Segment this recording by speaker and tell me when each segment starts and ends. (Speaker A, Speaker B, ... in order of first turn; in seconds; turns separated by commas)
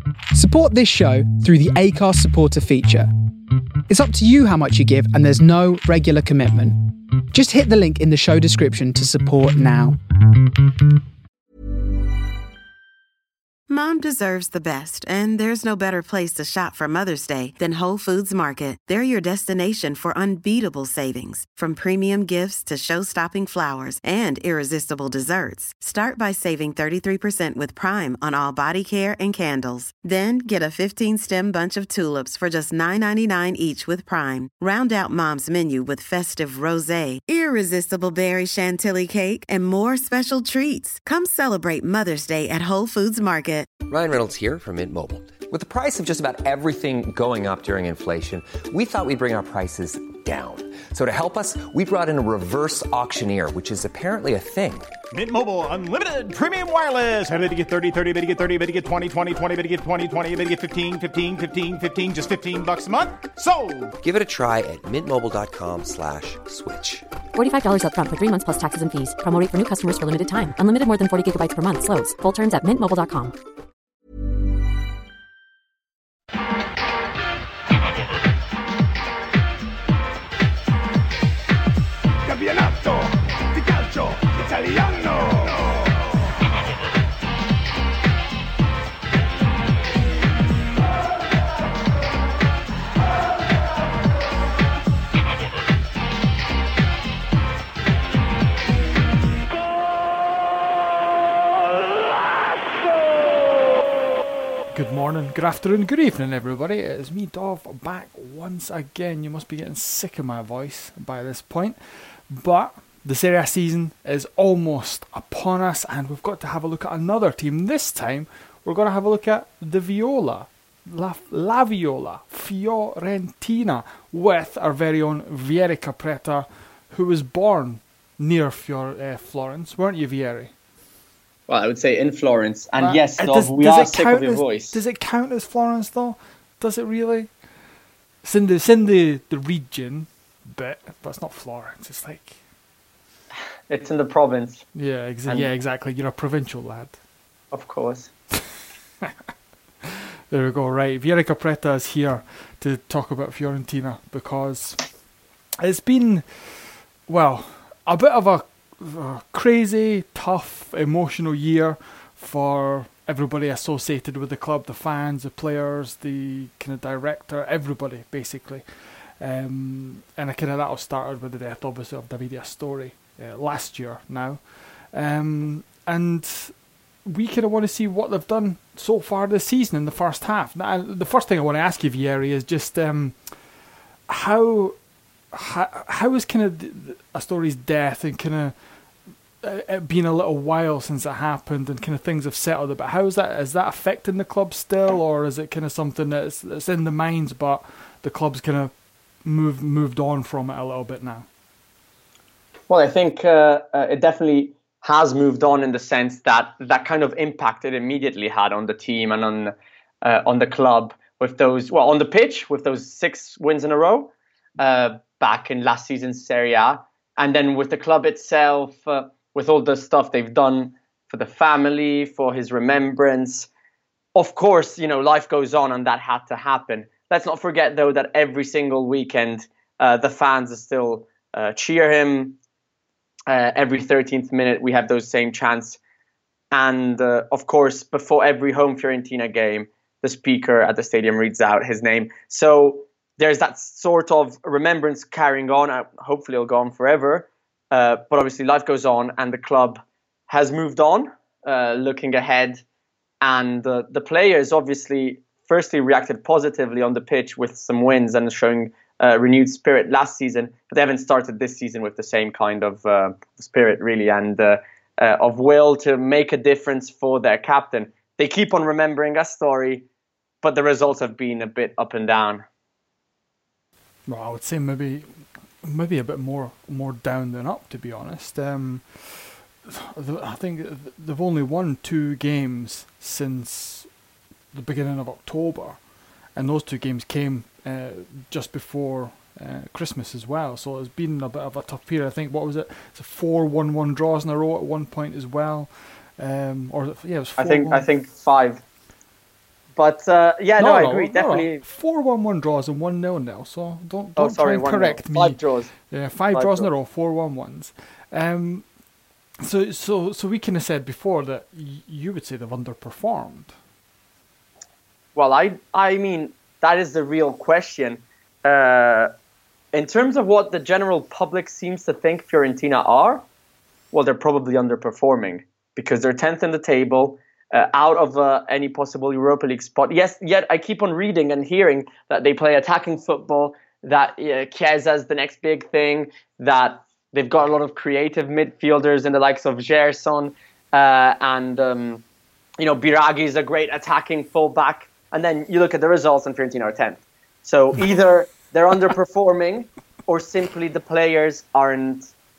Speaker A: 0.3-3.1, Speaker A: 3.9-6.8, Speaker A: 7.3-10.0, Speaker B: 13.7-43.7, Speaker C: 43.9-54.9, Speaker D: 55.1-63.9, Speaker C: 64.0-67.1, Speaker E: 67.3-73.3, Speaker F: 104.7-130.5, Speaker G: 131.5-134.8, Speaker F: 132.8-137.5, Speaker F: 138.2-142.4, Speaker G: 143.7-144.7, Speaker F: 144.7-147.0, Speaker G: 145.2-145.5, Speaker G: 147.5-148.1, Speaker F: 150.3-154.9, Speaker F: 155.6-201.3, Speaker G: 202.7-223.5, Speaker G: 224.1-232.4, Speaker G: 233.3-235.8, Speaker G: 236.5-252.6, Speaker G: 253.2-269.9, Speaker G: 270.4-272.4, Speaker F: 274.1-283.9, Speaker F: 284.5-297.9, Speaker G: 297.4-298.6, Speaker G: 299.8-301.6, Speaker F: 300.6-308.7, Speaker G: 304.2-306.7, Speaker F: 309.4-313.6, Speaker G: 315.1-319.1, Speaker G: 319.7-323.2, Speaker G: 323.9-342.0, Speaker G: 342.6-352.1